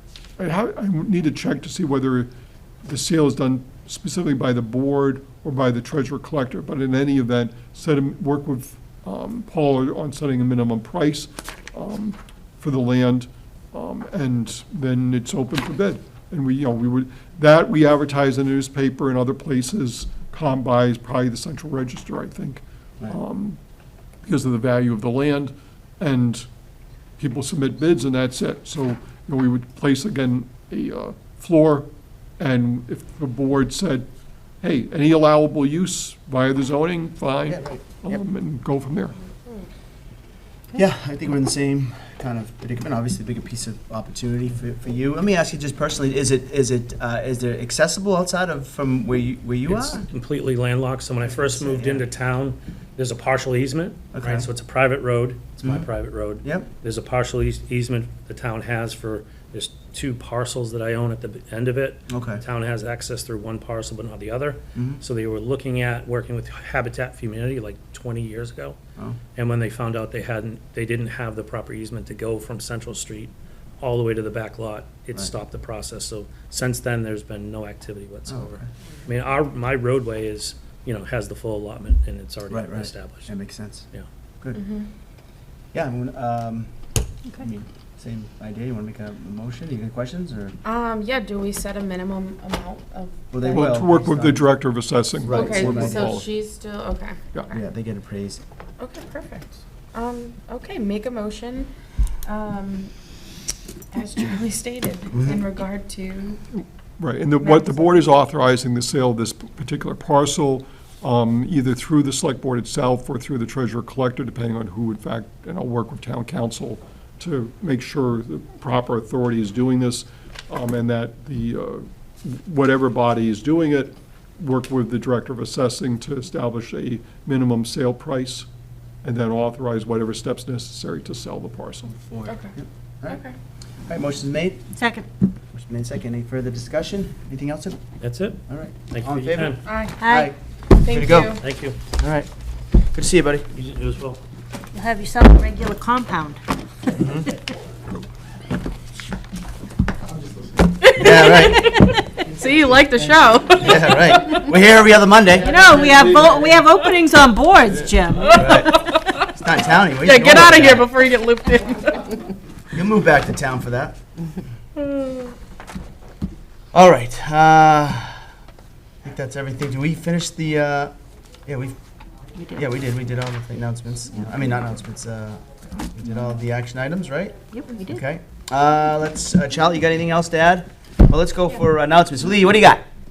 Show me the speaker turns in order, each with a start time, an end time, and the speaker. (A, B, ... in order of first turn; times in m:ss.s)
0:00.4-0:02.3 A
0:02.8-0:23.6 A
0:24.2-0:26.4 A
0:27.2-0:31.9 A
0:32.4-0:34.1 A
0:34.6-0:39.2 A
0:37.5-0:38.2 B
0:40.7-0:50.1 B
0:49.7-1:08.8 C
0:51.2-0:52.0 B
0:54.1-0:54.5 B
0:55.6-0:56.7 B
1:02.1-1:02.4 B
1:04.7-1:05.0 B
1:09.4-1:23.3 C
1:18.3-1:18.6 B
1:22.5-1:23.9 B
1:24.4-1:24.7 B
1:24.6-1:24.9 D
1:25.7-1:26.7 B
1:27.3-1:30.6 B
1:30.6-1:33.8 D
1:33.3-1:34.5 B
1:33.5-1:36.3 A
1:35.2-1:36.2 B
1:35.3-1:37.6 D
1:37.5-1:38.4 B
1:38.8-1:41.7 D
1:42.2-1:42.9 D
1:43.9-1:46.4 D
1:45.1-1:45.4 B
1:46.5-2:08.5 A
1:47.4-1:48.1 D
2:09.0-2:11.9 A
2:11.9-2:13.2 B
2:12.3-2:12.5 D
2:13.1-2:13.3 D
2:13.9-2:14.6 B
2:14.7-2:15.1 E
2:15.5-2:17.8 B
2:18.0-2:19.6 C
2:18.5-2:21.4 B
2:19.6-2:20.0 D
2:20.0-2:20.3 E
2:20.7-2:21.4 D
2:21.4-2:21.8 C
2:22.0-2:22.3 B
2:22.9-2:23.5 B
2:23.5-2:24.2 C
2:24.7-2:26.9 E
2:27.0-2:27.3 B
2:30.8-2:34.4 D
2:31.0-2:31.9 B
2:33.6-2:35.5 B
2:35.4-2:38.7 E
2:38.3-2:39.2 D
2:38.4-2:40.9 B
2:40.0-2:42.2 D
2:42.7-2:44.0 B
2:44.8-2:45.3 D
2:46.7-2:48.2 B
2:49.0-2:50.9 B
2:51.4-2:51.8 B
2:52.4-2:52.6 E
2:52.5-2:55.4 B
2:55.9-3:02.8 B
2:57.5-2:58.0 E